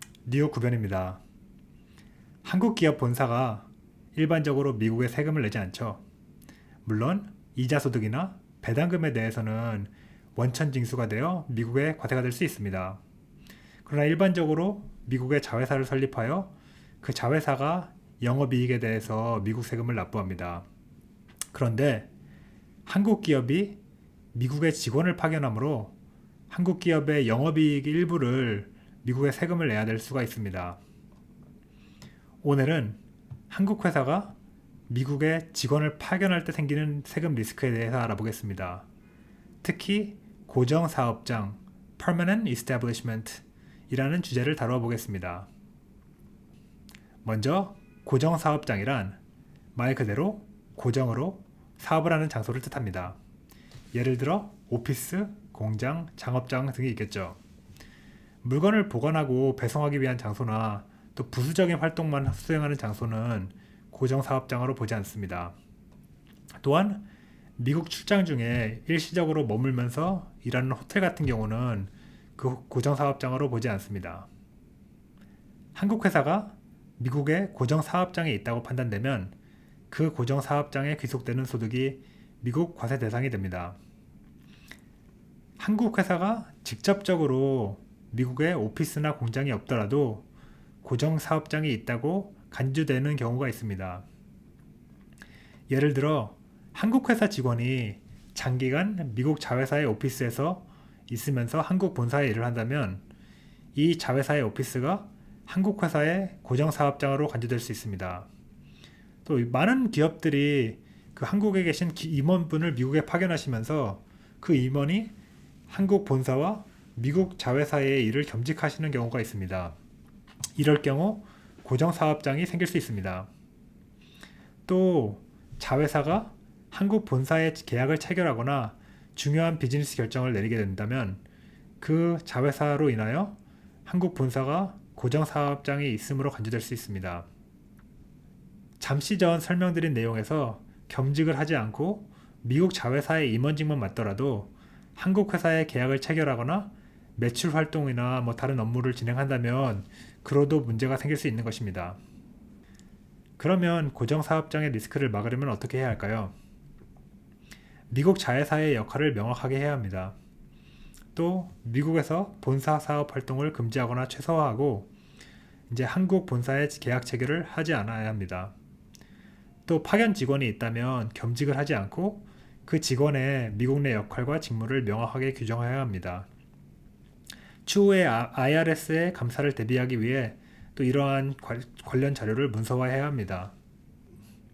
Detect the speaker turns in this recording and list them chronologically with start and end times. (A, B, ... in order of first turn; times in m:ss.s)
0:00.2-0:01.2 A
0:02.4-0:06.0 A
0:06.8-0:13.0 A
0:13.8-0:20.6 A
0:21.5-0:22.1 A
0:22.8-0:23.8 A
0:24.3-0:25.9 A
0:26.5-0:30.8 A
0:32.4-0:33.0 A
0:33.5-0:34.4 A
0:34.9-0:38.9 A
0:39.6-0:45.5 A
0:47.2-0:49.2 A
0:49.7-0:53.2 A
0:53.9-0:57.4 A
0:58.4-1:05.5 A
1:06.6-1:07.1 A
1:07.6-1:14.3 A
1:15.7-1:19.3 A
1:19.9-1:23.8 A
1:25.6-1:30.2 A
1:30.8-1:34.0 A
1:35.7-1:43.0 A
1:43.7-1:48.3 A
1:49.2-1:55.1 A
1:55.7-1:59.7 A
2:00.6-2:03.3 A
2:04.7-2:11.2 A
2:11.8-2:17.3 A
2:18.8-2:32.0 A
2:33.4-2:36.3 A
2:37.9-2:40.2 A
2:41.1-2:44.9 A
2:45.7-2:48.5 A
2:49.6-2:56.3 A
2:57.6-3:03.5 A